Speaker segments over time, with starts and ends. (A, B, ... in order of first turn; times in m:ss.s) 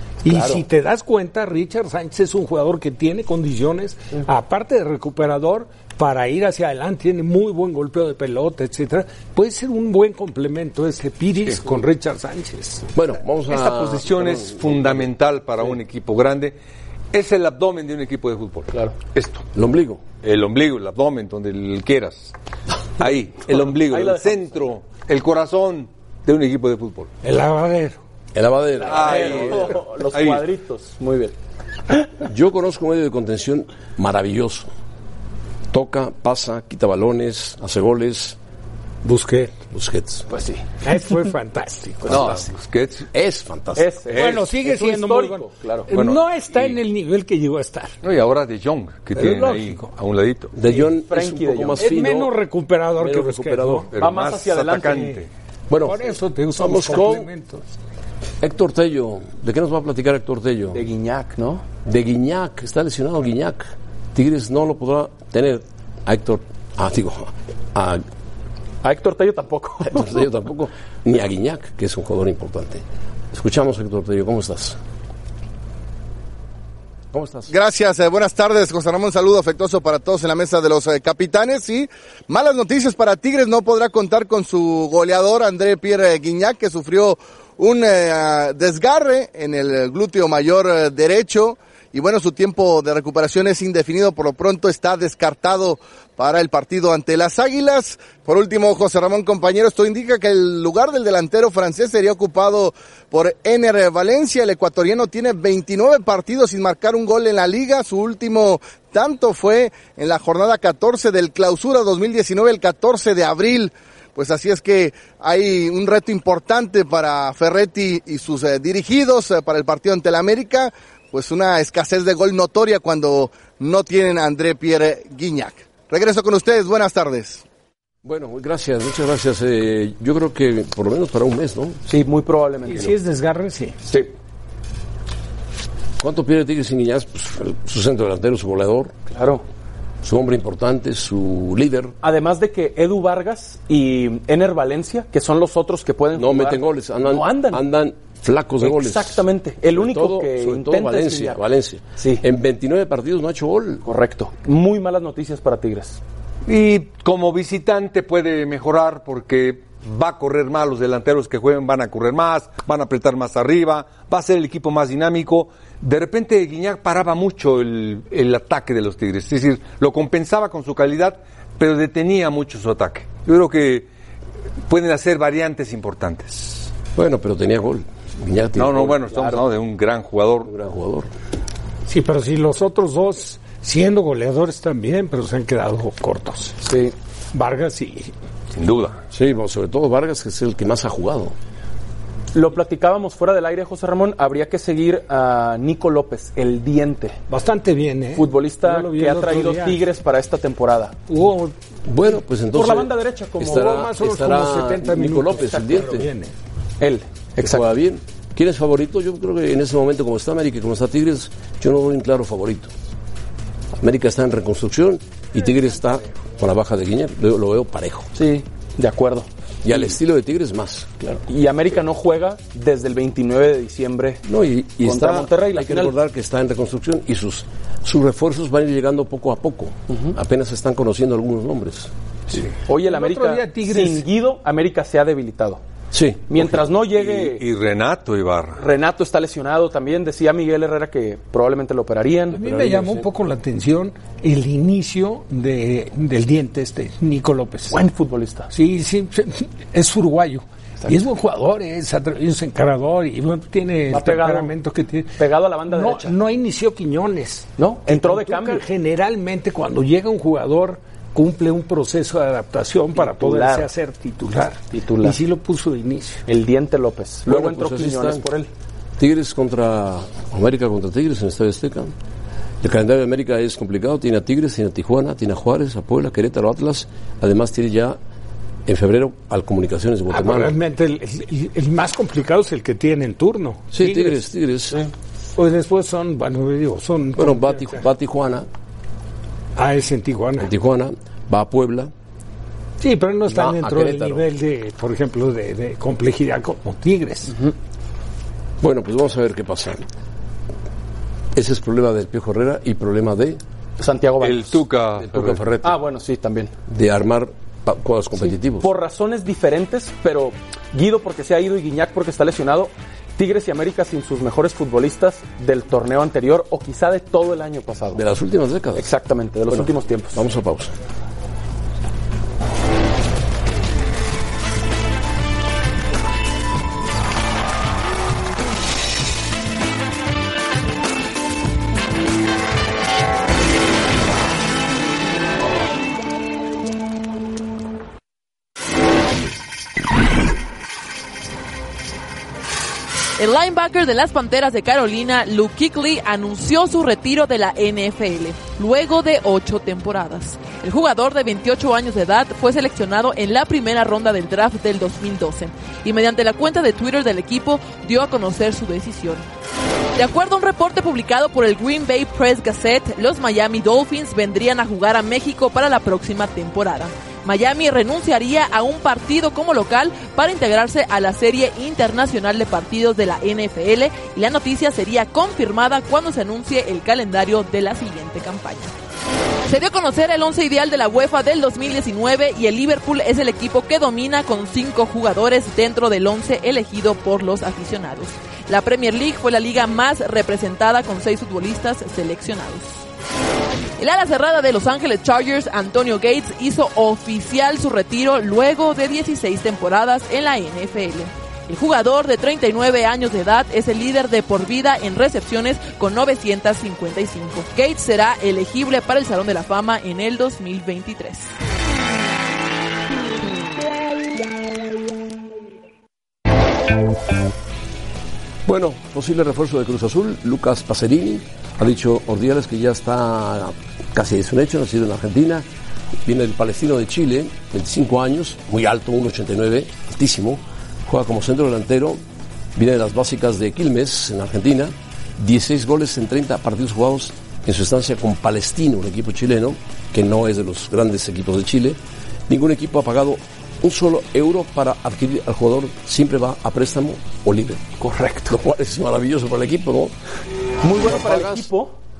0:00.2-0:12.8 A
0:00.2-0:00.6 B
0:12.9-0:15.1 C
0:13.5-0:16.6 D
0:17.1-0:19.4 D
0:19.5-0:20.0 C
0:20.2-0:22.3 D
0:23.0-0:27.1 D
0:23.6-0:24.6 B
0:27.2-0:28.0 A
0:28.3-0:29.7 C
0:28.8-0:31.3 B
0:28.9-0:30.4 D
0:32.2-0:34.7 C
0:35.7-0:38.4 C
0:39.0-0:39.5 A
0:39.7-0:40.3 C
0:40.3-0:40.6 B
0:40.8-0:42.4 A
0:42.1-0:43.1 D
0:43.1-0:44.0 C
0:43.8-0:45.9 B
0:44.1-0:44.4 D
0:44.1-0:47.9 A
0:45.9-0:46.8 D
0:48.0-0:50.5 D
0:49.2-0:49.8 A
0:50.5-0:52.4 C
0:50.6-0:51.9 B
0:51.8-0:53.9 A
0:53.0-0:53.9 C
0:53.9-0:55.3 D
0:54.0-0:55.2 B
0:55.7-0:56.0 C
0:55.8-0:57.6 A
0:56.6-0:57.3 C
0:58.4-1:00.8 C
1:00.7-1:01.6 B
1:01.8-1:08.0 C
1:08.8-1:10.2 B
1:09.9-1:14.8 C
1:17.1-1:17.5 C
1:17.5-2:07.4 E
2:08.0-2:11.8 C
2:11.9-2:13.0 B
2:12.6-2:13.8 A
2:13.9-2:14.1 B
2:16.0-2:18.9 C
2:19.1-2:19.4 B
2:20.0-2:21.9 C
2:22.0-2:27.6 B
2:26.1-2:33.8 C
2:28.6-2:31.4 B
2:32.0-2:32.2 B
2:33.8-2:36.0 B
2:36.4-2:53.9 D
2:54.7-2:56.7 D
2:56.9-2:59.0 C
2:58.6-3:00.5 D
2:59.1-2:59.4 B
3:00.4-3:01.1 C
3:01.9-3:06.6 A
3:06.6-3:06.9 B
3:07.3-3:08.1 A
3:08.5-3:09.0 D
3:09.1-3:11.3 C
3:12.3-3:17.2 B
3:17.3-3:19.8 A
3:18.1-3:21.0 B
3:21.1-3:21.5 A
3:21.9-3:26.1 C
3:22.5-3:23.8 B
3:23.4-3:26.3 A
3:26.8-3:27.7 B
3:27.4-3:32.7 C
3:33.8-3:38.1 C
3:38.2-3:39.9 B
3:39.6-3:41.0 C
3:41.1-3:44.2 B
3:44.2-3:51.9 C
3:44.8-3:45.9 B
3:52.3-3:54.0 A
3:52.6-3:55.6 B
3:55.9-3:56.5 C
3:56.3-3:57.4 B
3:56.5-3:58.6 D
3:58.6-4:02.4 B
4:02.3-4:07.8 A
4:02.4-4:03.0 C
4:07.7-4:08.5 B
4:08.5-4:26.2 A
4:13.9-4:14.5 B
4:15.2-4:16.1 B
4:17.6-4:18.6 B
4:23.0-4:23.7 B
4:24.7-4:25.2 B
4:26.3-4:28.5 B
4:27.2-4:28.3 C
4:29.0-4:31.9 C
4:32.6-4:38.0 C
4:38.6-4:40.5 C
4:40.1-4:44.2 A
4:43.7-4:44.8 C
4:45.4-4:47.8 A
4:47.2-4:48.5 C
4:49.6-4:50.5 A
4:50.4-4:51.9 C
4:52.8-4:57.4 A
4:53.3-4:54.2 C
4:58.6-4:59.9 C
5:01.3-5:03.4 C
5:03.8-5:04.6 B
5:04.2-5:05.4 D
5:05.0-5:05.8 C
5:05.6-5:06.5 B
5:06.7-5:08.7 C
5:08.6-5:18.0 B
5:17.9-5:18.9 C
5:18.8-5:20.2 B
5:19.5-5:20.8 C
5:43.2-5:59.2 F
6:00.0-6:18.7 F
6:19.5-6:32.8 F
6:33.8-6:51.3 F
6:58.4-7:05.5 C
7:06.0-7:12.0 C
7:12.6-7:27.6 C
7:27.8-7:28.4 B
7:28.3-7:29.9 C
7:30.6-7:31.7 B
7:30.8-7:31.5 C